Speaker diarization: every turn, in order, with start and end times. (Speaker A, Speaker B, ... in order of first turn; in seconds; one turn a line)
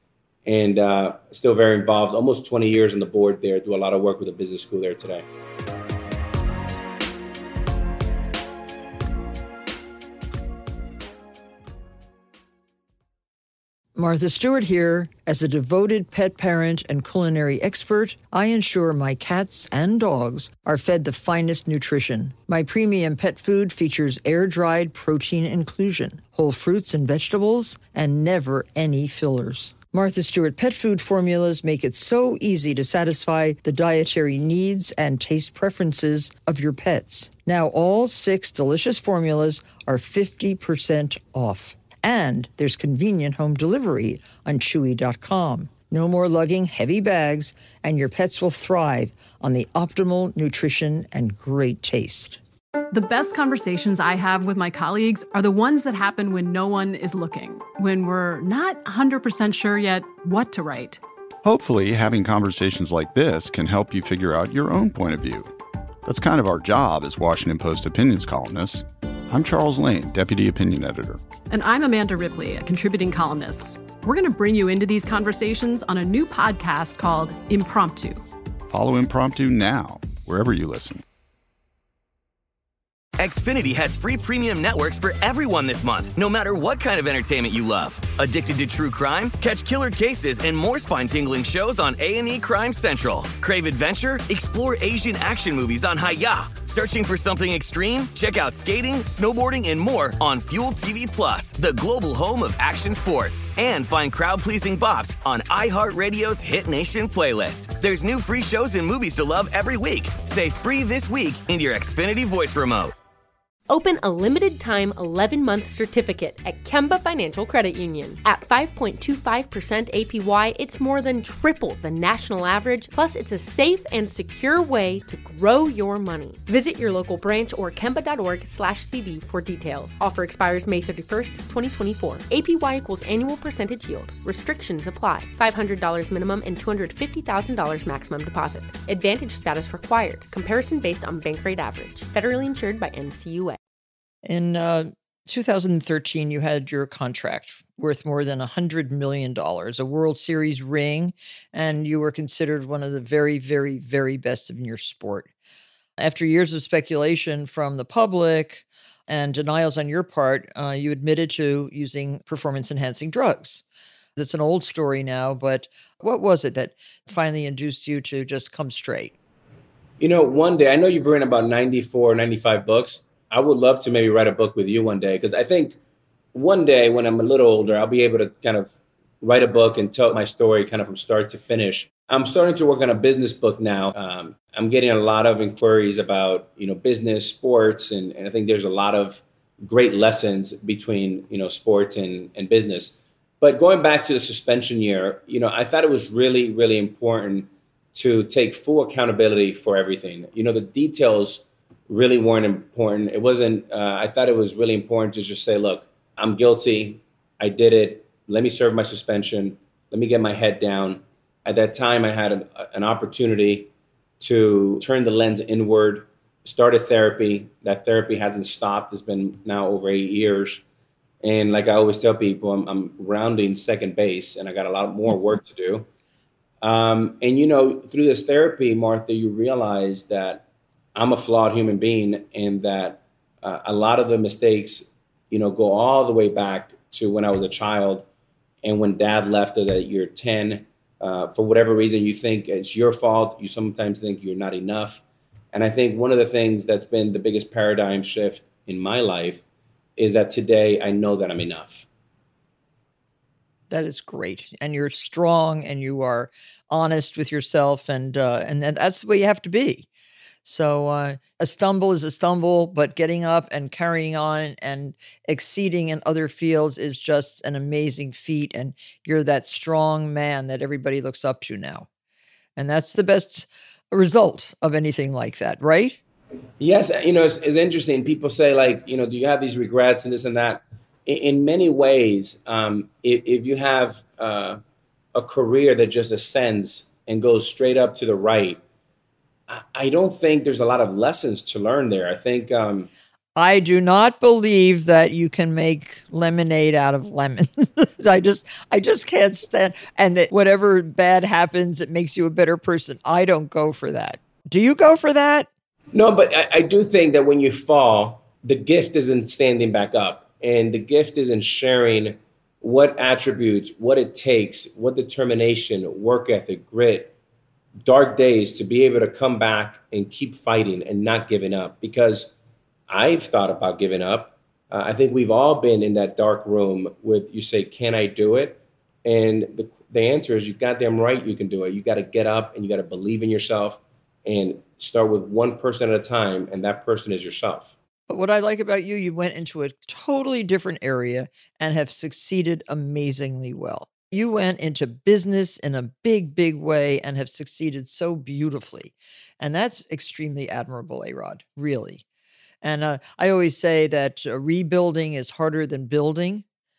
Speaker A: 0.5-5.3
Speaker B: 14.0-52.4
Speaker C: 52.9-61.0
Speaker D: 61.4-65.5
Speaker D: 66.0-71.2
Speaker C: 71.5-78.2
Speaker D: 78.7-81.0
Speaker E: 83.2-112.9
Speaker F: 113.7-143.6
Speaker B: 144.3-155.3
Speaker B: 156.0-163.6
Speaker B: 164.2-169.1
Speaker A: 170.0-175.8
Speaker A: 176.3-213.7
Speaker A: 214.2-220.6
Speaker A: 221.2-225.9
Speaker A: 226.6-238.1
Speaker A: 238.6-249.4
Speaker A: 250.0-251.9
Speaker B: 253.7-259.9
Speaker B: 260.4-271.9
Speaker B: 272.6-276.0
Speaker A: 276.6-284.6
Speaker A: 285.1-288.6
Speaker A: 289.5-292.9
Speaker B: 293.4-305.5
Speaker A: 305.9-317.1
Speaker A: 317.8-322.4
Speaker A: 322.9-337.7
Speaker B: 338.1-352.0
Speaker B: 352.6-356.4